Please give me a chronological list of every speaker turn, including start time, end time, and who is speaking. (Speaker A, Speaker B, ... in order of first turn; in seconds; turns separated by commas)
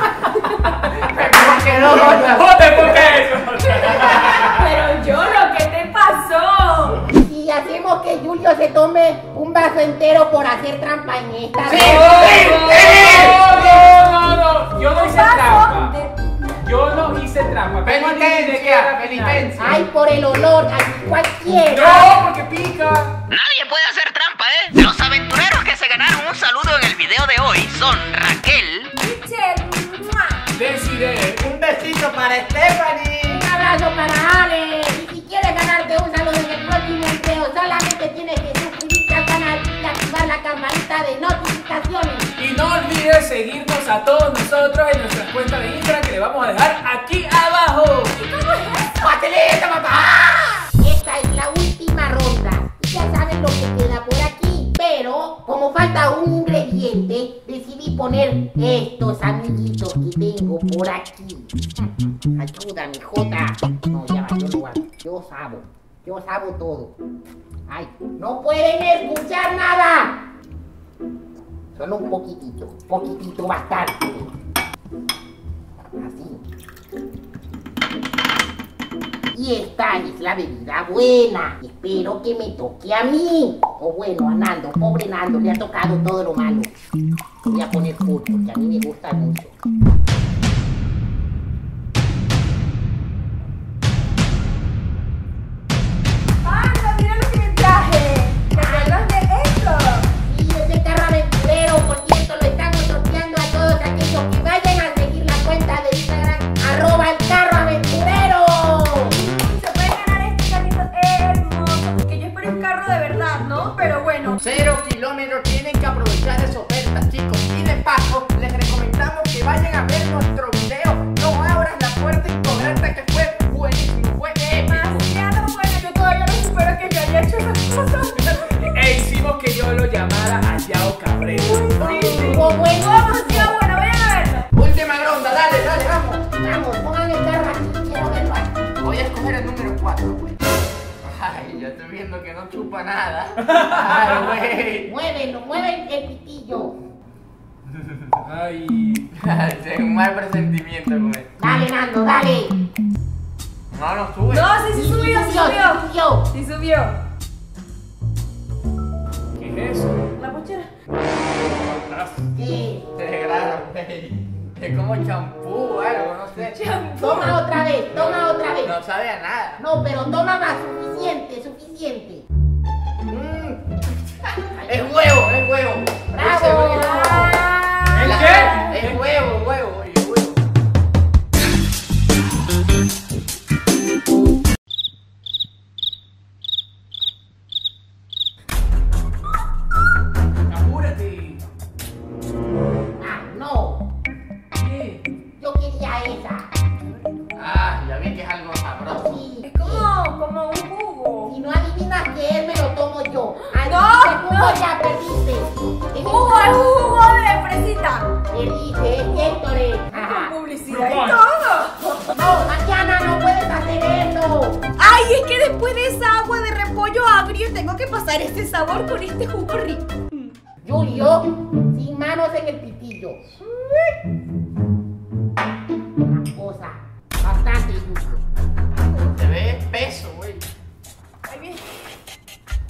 Speaker A: 1.0-2.5, Speaker B: 1.2-2.5, Speaker C: 2.0-4.6, Speaker D: 3.6-7.0, Speaker B: 7.1-12.5, Speaker A: 11.6-13.5, Speaker C: 11.7-15.9, Speaker D: 12.2-13.7, Speaker D: 14.9-16.5, Speaker C: 16.6-19.8, Speaker A: 17.8-19.5, Speaker B: 19.6-22.2, Speaker C: 21.7-23.1, Speaker E: 23.3-28.9, Speaker D: 29.0-30.4, Speaker C: 30.5-31.5, Speaker A: 31.4-33.4, Speaker B: 33.2-42.3, Speaker C: 42.4-48.2, Speaker D: 48.2-49.1, Speaker A: 49.0-50.6, Speaker B: 50.8-61.5, Speaker B: 62.3-66.9, Speaker B: 67.7-70.2, Speaker B: 71.8-74.3, Speaker B: 76.0-76.4, Speaker B: 79.3-86.7, Speaker B: 87.4-89.5, Speaker D: 96.4-100.1, Speaker B: 98.5-99.0, Speaker B: 100.2-109.1, Speaker D: 109.1-114.4, Speaker A: 114.4-124.9, Speaker D: 124.4-128.8, Speaker C: 128.3-132.5, Speaker D: 131.3-134.5, Speaker B: 132.1-133.6, Speaker A: 134.5-136.2, Speaker B: 136.3-138.6, Speaker A: 138.8-140.4, Speaker A: 141.0-144.9, Speaker B: 144.8-146.7, Speaker C: 148.2-149.1, Speaker A: 149.2-151.3, Speaker B: 151.4-152.5, Speaker A: 153.7-154.5, Speaker D: 154.3-157.0, Speaker B: 154.7-156.3, Speaker C: 159.3-160.1, Speaker D: 160.2-160.7, Speaker C: 161.2-162.2, Speaker B: 162.3-162.8, Speaker A: 162.9-166.6, Speaker D: 166.5-167.4, Speaker B: 167.0-168.8, Speaker A: 167.9-169.6, Speaker B: 169.6-172.2, Speaker A: 173.1-176.9, Speaker B: 174.5-175.0, Speaker B: 176.1-177.3, Speaker D: 176.4-178.7, Speaker C: 177.9-179.0, Speaker A: 178.0-180.4, Speaker C: 190.5-191.4, Speaker B: 193.0-193.8, Speaker C: 194.6-195.0, Speaker B: 195.4-196.5, Speaker A: 197.3-199.1, Speaker B: 198.9-199.9, Speaker D: 199.4-201.4, Speaker B: 201.2-206.6, Speaker D: 203.5-204.7, Speaker D: 206.0-208.1, Speaker B: 208.3-210.3, Speaker D: 209.9-211.8, Speaker C: 210.6-211.2, Speaker B: 211.8-214.6, Speaker D: 214.8-220.3, Speaker B: 220.6-223.2, Speaker D: 223.4-224.0, Speaker B: 226.0-228.2, Speaker D: 228.7-229.2, Speaker A: 229.1-230.4, Speaker D: 231.2-231.9